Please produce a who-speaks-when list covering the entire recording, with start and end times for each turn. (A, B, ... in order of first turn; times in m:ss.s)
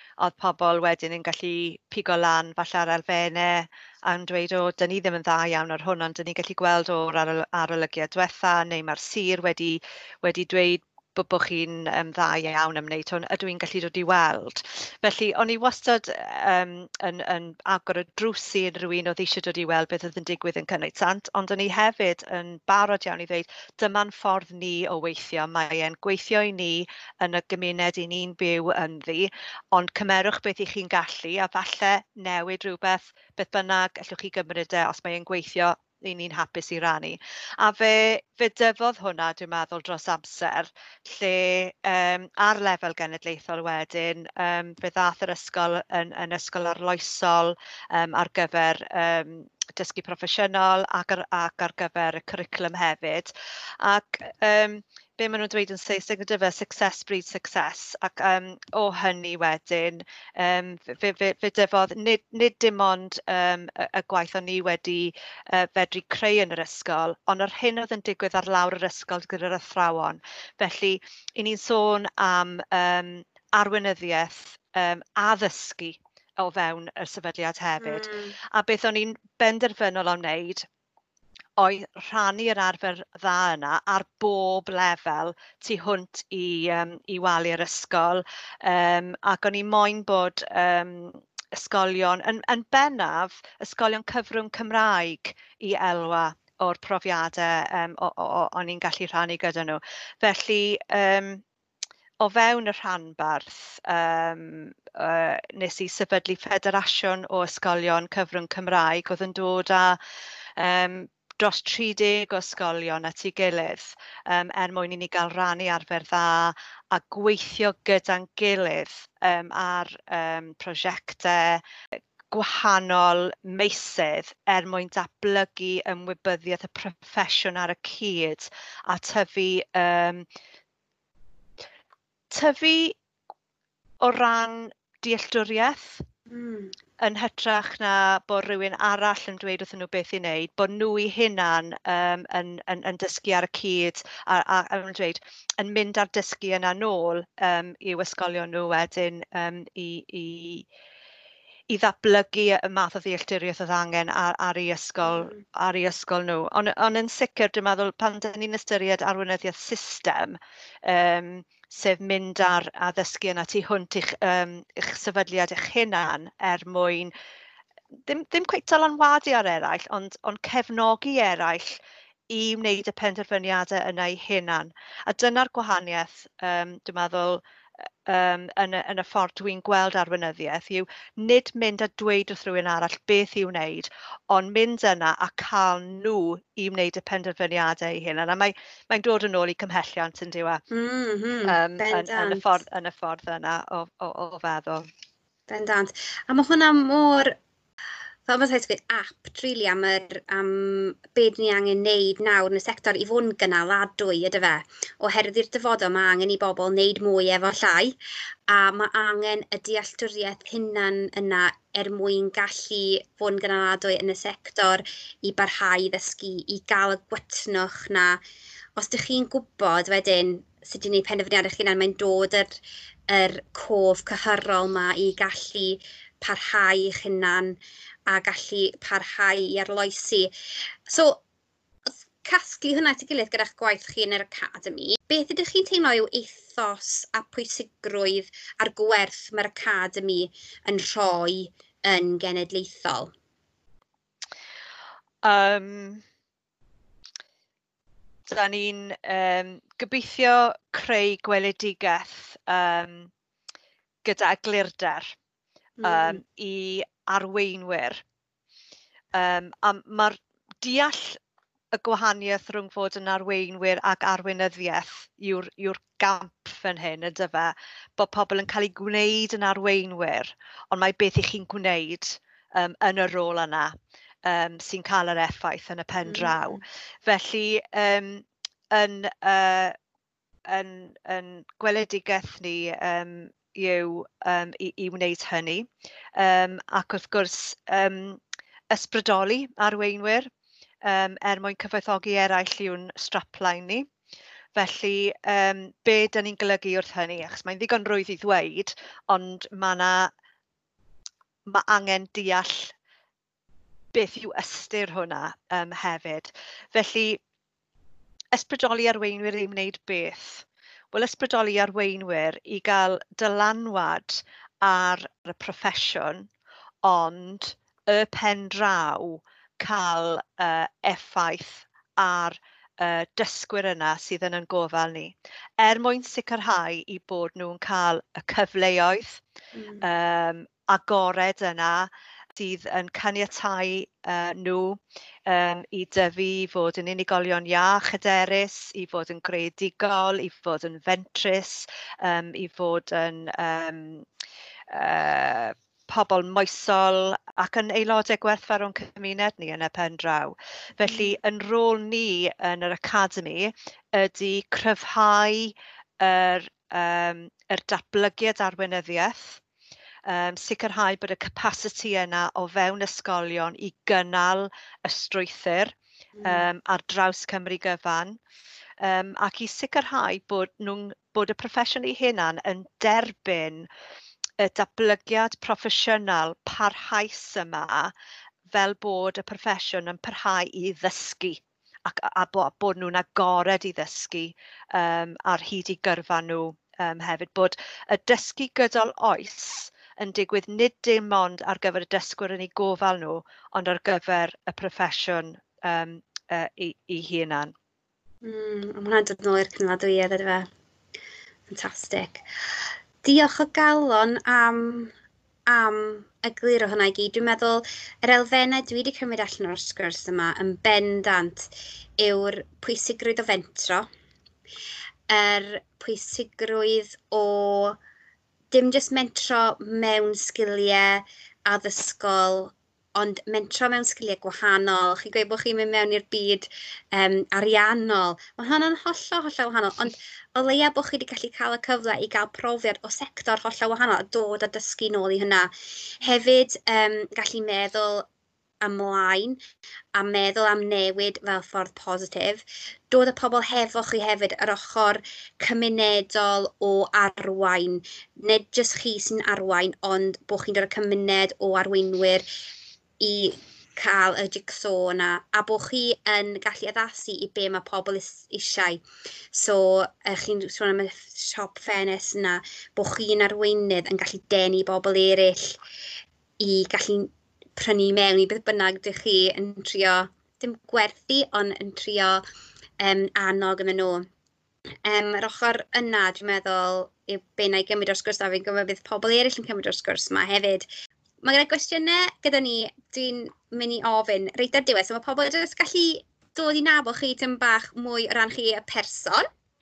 0:00.2-1:20.6 A
1:17.8-1:18.4 B
1:21.6-1:41.4 A
1:42.2-1:50.0 A
1:50.6-2:10.3 A
2:12.3-2:13.0 A
2:14.0-2:16.0 A
2:16.3-2:16.7 B
2:17.0-2:30.7 A
2:31.7-2:47.1 A
2:35.0-2:35.4 B
2:48.1-2:51.8 A
2:52.3-2:57.4 A
2:58.0-3:10.6 A
3:10.7-3:12.6 B
3:11.4-3:14.9 A
3:15.5-3:17.3 B
3:18.3-3:28.0 B
3:28.5-3:38.2 B
3:38.8-3:42.6 B
3:43.1-3:50.3 B
3:50.9-3:51.2 B
3:51.9-4:03.1 B
4:05.2-4:06.0 A
4:08.3-4:13.1 A
4:14.0-4:15.2 A
4:15.8-4:16.2 B
4:15.8-4:18.0 A
4:19.1-4:21.2 A
4:21.7-4:33.7 A
4:34.2-4:39.7 A
4:36.0-4:36.5 B
4:40.5-4:50.3 A
4:50.8-4:53.9 A
4:54.6-5:00.1 A
5:01.5-5:02.7 A
5:03.9-5:07.2 A
5:08.3-5:16.3 A
5:16.8-5:29.2 A
5:29.6-5:29.8 B
5:29.8-5:44.1 A
5:44.7-5:59.4 A
6:00.0-6:08.2 A
6:06.2-6:06.4 B
6:08.8-6:13.7 A
6:14.4-6:17.9 A
6:18.5-6:37.5 A
6:38.2-6:40.5 B
6:41.5-6:44.9 B
6:45.5-6:53.9 B
6:55.1-6:57.8 B
6:58.5-7:18.1 B
7:18.6-7:19.4 B
7:20.0-7:32.3 B
7:33.0-7:38.8 B
7:39.3-7:45.6 B
7:46.4-7:52.2 B
7:52.8-7:54.1 B
7:54.8-8:00.7 B
8:01.2-8:09.3 B